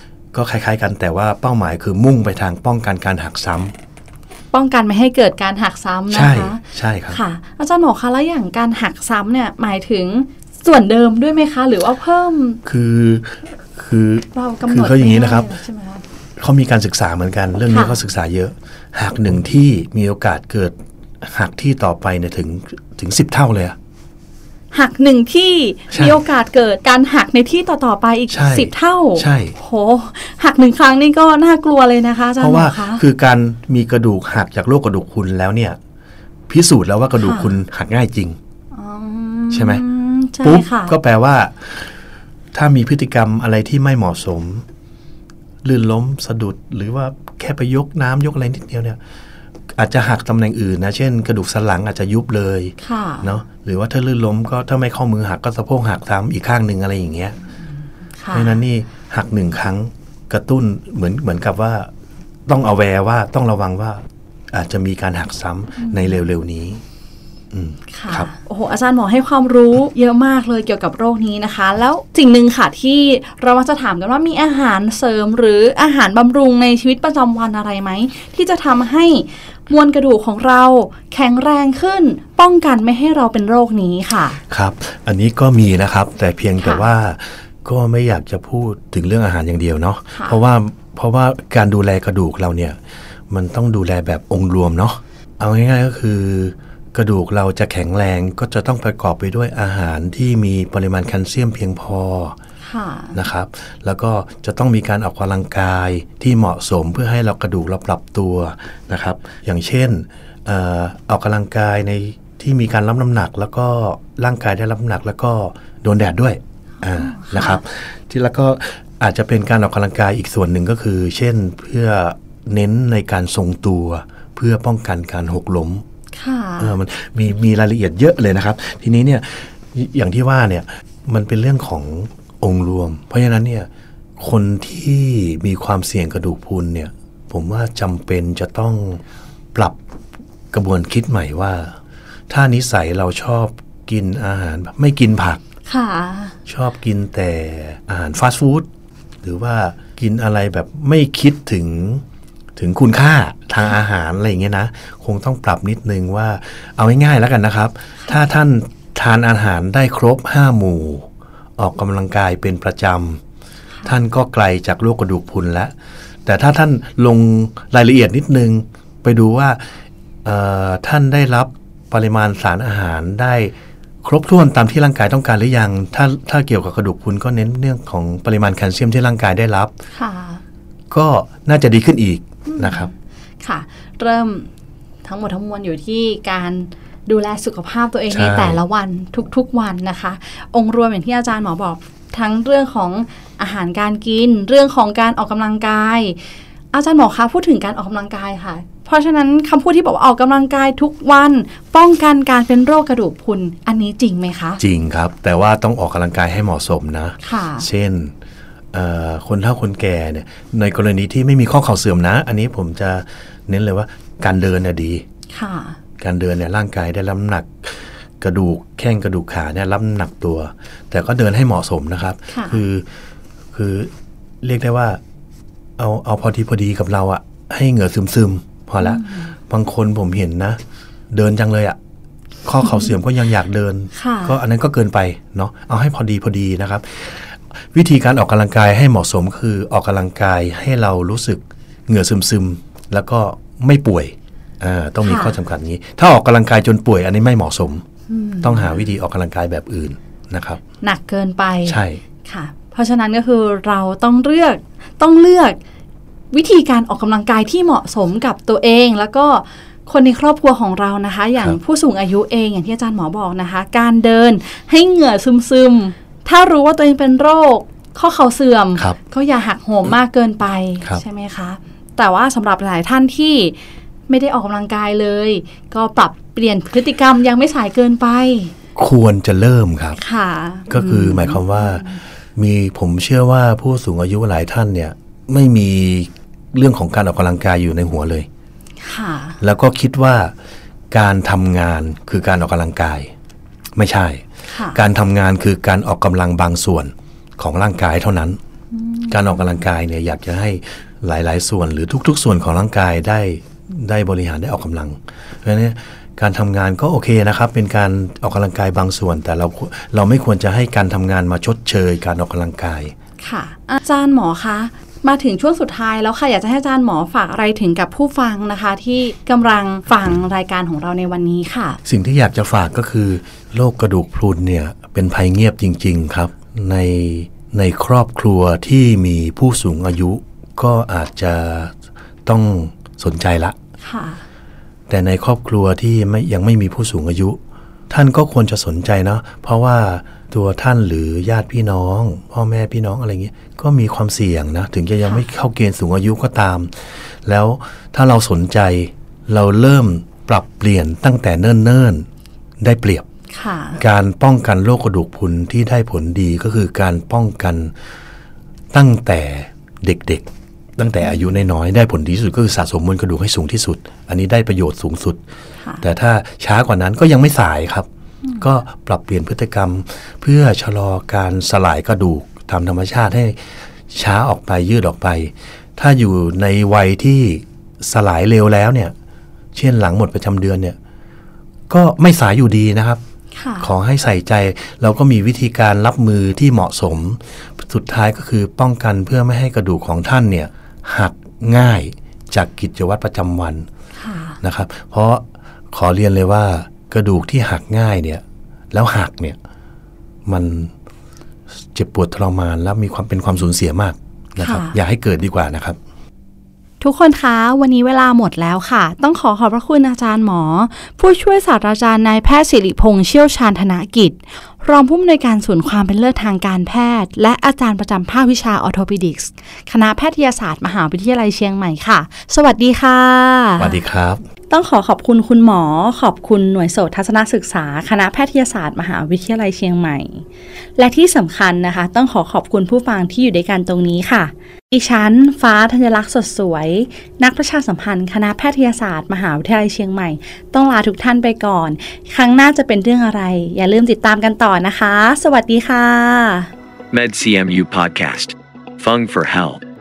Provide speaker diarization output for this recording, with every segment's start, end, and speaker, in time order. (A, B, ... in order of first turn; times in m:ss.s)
0:00.3-0:03.7 A
0:04.5-0:12.6 B
0:06.1-0:07.2 A
0:12.6-0:15.5 A
0:14.3-0:16.0 B
0:16.4-0:23.8 A
0:17.7-0:18.0 B
0:24.7-0:33.0 B
0:25.9-0:26.2 A
0:28.3-0:29.5 A
0:32.4-0:35.8 A
0:36.5-0:38.4 A
0:37.2-0:37.5 B
0:38.7-0:40.9 B
0:39.5-0:39.8 A
0:40.4-0:41.9 A
0:42.5-0:44.6 A
0:45.6-0:49.0 A
0:49.7-0:57.4 A
0:52.8-0:53.3 B
0:58.2-0:58.6 B
0:58.3-1:01.9 A
1:02.5-1:06.8 A
1:05.8-1:06.2 B
1:07.5-1:08.3 A
1:07.9-1:24.4 B
1:24.5-1:32.8 A
1:26.6-1:26.8 B
1:30.1-1:30.4 B
1:33.3-1:42.4 A
1:42.6-1:43.2 B
1:43.1-2:05.8 A
1:56.9-1:57.6 B
2:06.2-2:06.8 B
2:06.6-2:19.0 A
2:20.5-2:21.8 A
2:22.3-2:25.4 A
2:25.7-2:26.4 B
2:26.5-2:28.7 A
2:29.2-2:32.0 A
2:32.6-2:43.2 A
2:43.8-2:45.7 A
2:46.2-2:49.7 A
2:50.2-2:59.7 A
2:59.9-3:00.4 B
3:00.9-3:02.9 A
3:02.4-3:04.5 B
3:05.0-3:16.2 B
3:08.1-3:08.6 A
3:16.7-3:24.6 B
3:24.6-3:28.1 A
3:27.2-3:27.7 B
3:28.7-3:35.0 A
3:35.3-3:35.8 B
3:36.0-3:42.8 A
3:42.3-3:42.6 B
3:43.5-3:43.9 A
3:44.4-3:45.0 A
3:45.8-3:50.6 A
3:48.8-3:49.3 B
3:51.1-3:51.8 A
3:52.4-4:07.8 A
3:53.9-3:54.4 B
4:05.0-4:05.4 B
4:08.1-4:08.9 B
4:08.4-4:10.6 A
4:10.8-4:15.6 B
4:11.6-4:12.0 A
4:16.3-4:33.6 B
4:34.1-4:38.5 B
4:38.8-4:40.0 A
4:40.0-4:42.0 B
4:40.7-4:48.3 A
4:48.8-4:49.4 B
4:49.4-4:50.3 A
4:50.9-4:53.1 A
4:53.8-4:58.4 A
4:54.5-4:54.8 B
4:58.7-4:59.4 B
4:59.1-5:12.9 A
5:13.2-5:21.8 B
5:21.8-5:31.7 A
5:32.2-5:33.6 A
5:33.8-5:34.2 B
5:34.9-5:37.4 A
5:37.9-5:52.1 A
5:52.6-5:53.0 A
5:53.3-5:53.8 B
5:53.8-5:57.7 A
5:58.7-6:05.2 A
6:05.8-6:07.9 A
6:08.4-6:18.9 A
6:19.5-6:20.8 A
6:21.7-6:23.0 A
6:23.3-6:23.7 B
6:23.6-6:33.7 A
6:34.0-6:34.4 B
6:34.4-6:39.4 A
6:40.2-6:40.7 A
6:41.7-6:45.8 A
6:44.4-6:44.7 B
6:46.8-7:03.8 B
7:03.6-7:04.2 A
7:04.5-7:10.2 B
7:10.8-7:26.5 B
7:26.9-7:29.6 C